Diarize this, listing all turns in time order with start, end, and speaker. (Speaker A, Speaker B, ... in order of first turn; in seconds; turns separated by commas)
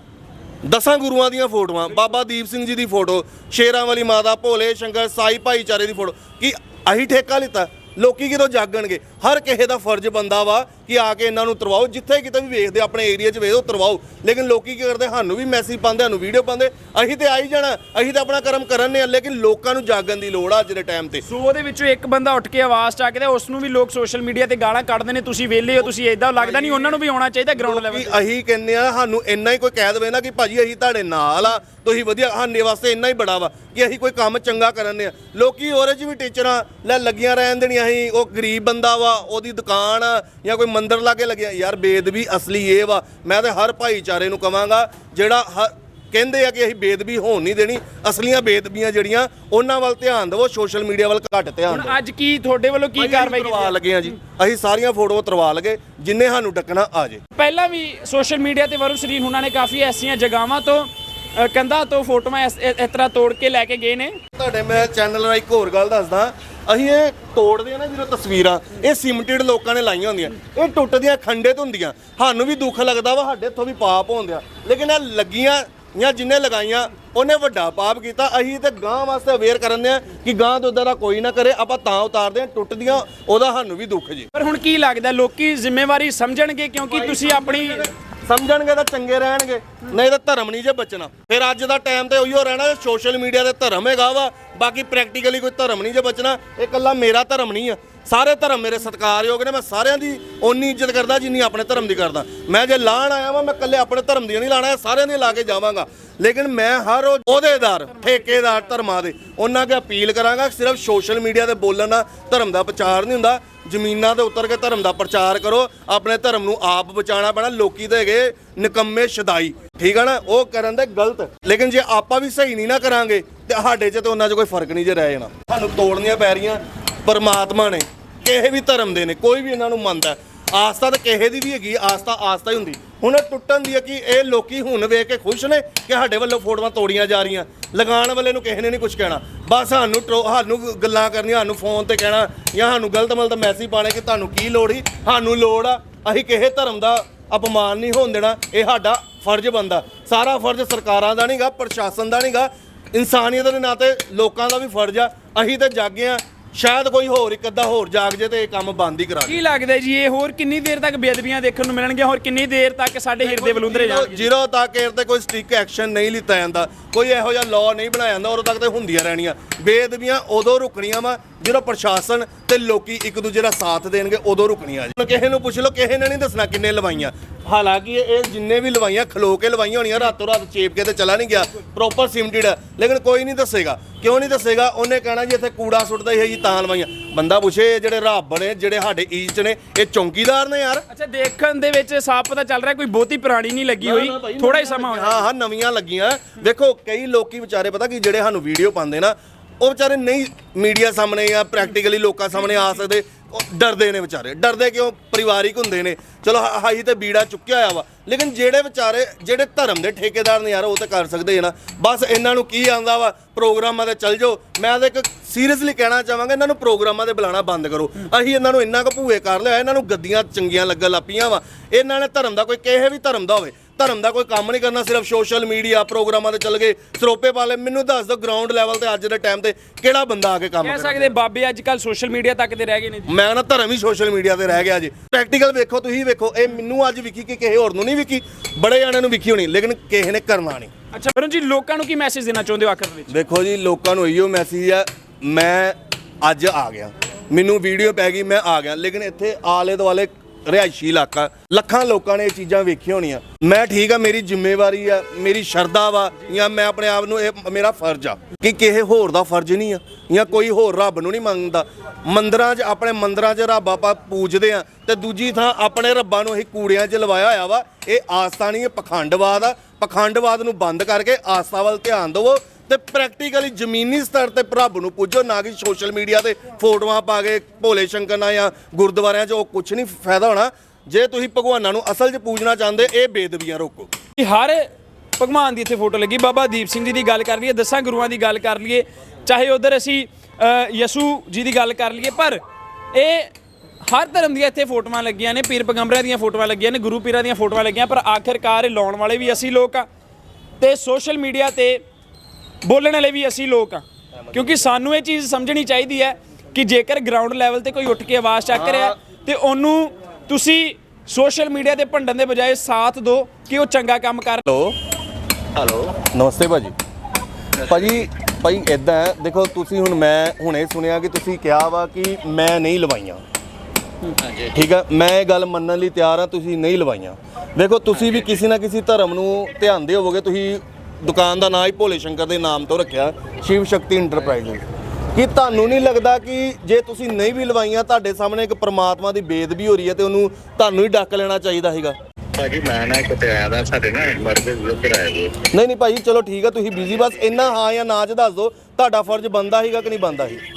Speaker A: 0.6-21.2, Speaker B: 21.3-28.1, Speaker A: 26.4-27.0, Speaker A: 27.6-52.0, Speaker B: 51.7-53.8, Speaker A: 53.0-57.2, Speaker B: 57.4-64.2, Speaker A: 64.3-84.3, Speaker B: 84.3-87.8, Speaker A: 86.9-159.4, Speaker B: 159.2-164.2, Speaker A: 163.2-190.8, Speaker B: 190.9-195.2, Speaker A: 193.8-231.1, Speaker B: 230.6-233.1, Speaker A: 233.1-240.7, Speaker B: 240.9-243.2, Speaker A: 243.1-283.9, Speaker B: 284.1-292.4, Speaker B: 292.9-293.3, Speaker B: 293.9-299.9, Speaker B: 300.6-301.8, Speaker B: 302.6-314.4, Speaker A: 304.2-304.7, Speaker A: 308.5-309.0, Speaker A: 314.5-314.8, Speaker A: 315.9-316.8, Speaker A: 317.6-323.2, Speaker A: 324.5-342.0, Speaker C: 342.4-345.4, Speaker A: 345.5-350.4